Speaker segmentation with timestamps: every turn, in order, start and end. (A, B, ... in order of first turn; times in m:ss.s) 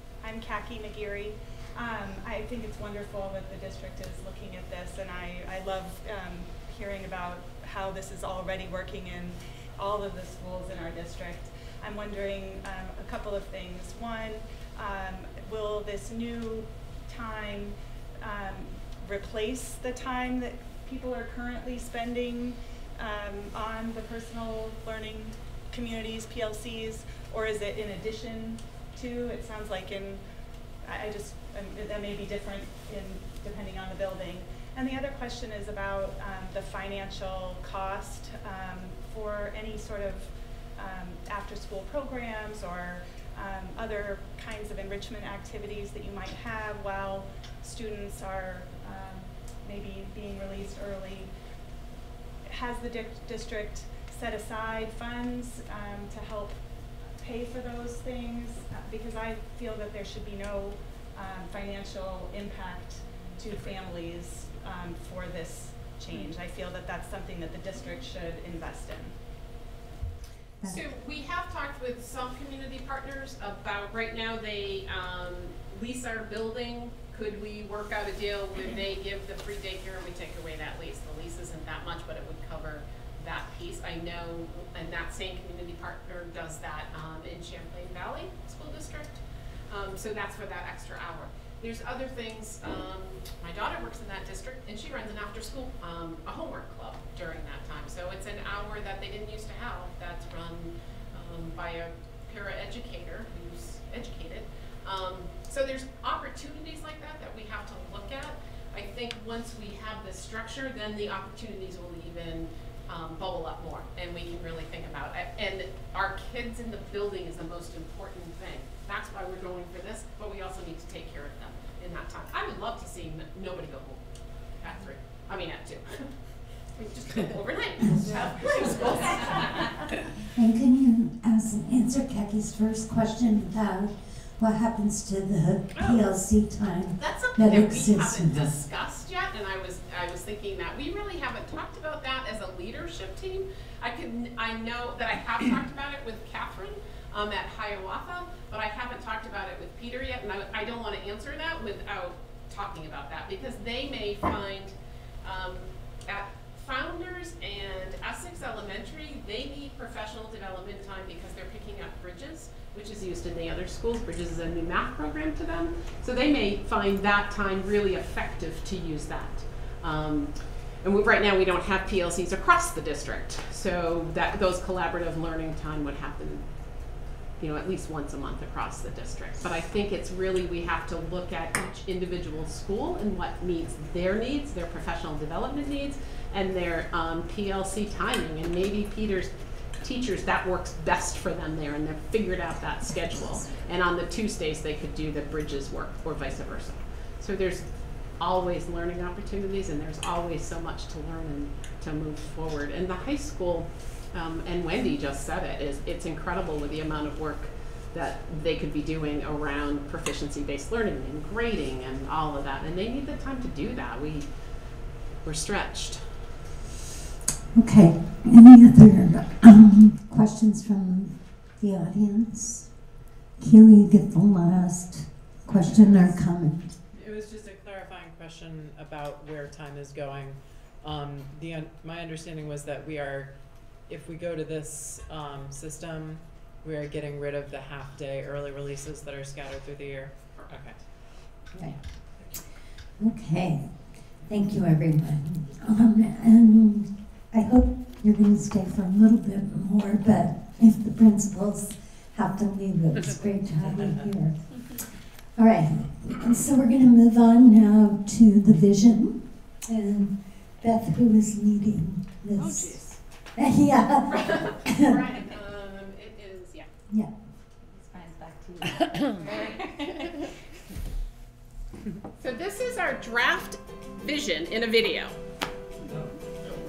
0:00.2-0:30.2 A
0:30.8-0:51.3 A
0:52.5-0:56.6 A
0:57.2-1:09.1 A
1:10.6-2:04.0 B
2:04.6-2:06.1 B
2:06.8-2:09.8 B
2:07.8-2:09.7 C
2:10.3-2:18.5 C
2:15.7-2:16.1 B
2:17.0-2:56.5 B
2:57.4-3:17.6 B
3:18.2-3:34.3 B
3:35.2-3:36.2 B
3:37.5-3:42.7 C
3:43.4-3:46.7 C
3:45.6-3:46.1 D
3:46.9-4:00.9 D
4:01.5-4:01.8 C
4:03.0-4:14.4 C
4:15.4-4:22.8 C
4:22.4-4:22.7 D
4:22.5-4:23.0 B
4:23.4-4:25.1 C
4:24.1-4:26.7 B
4:26.9-4:27.1 C
4:27.6-4:30.1 E
4:29.3-4:30.3 B
4:32.2-4:35.2 B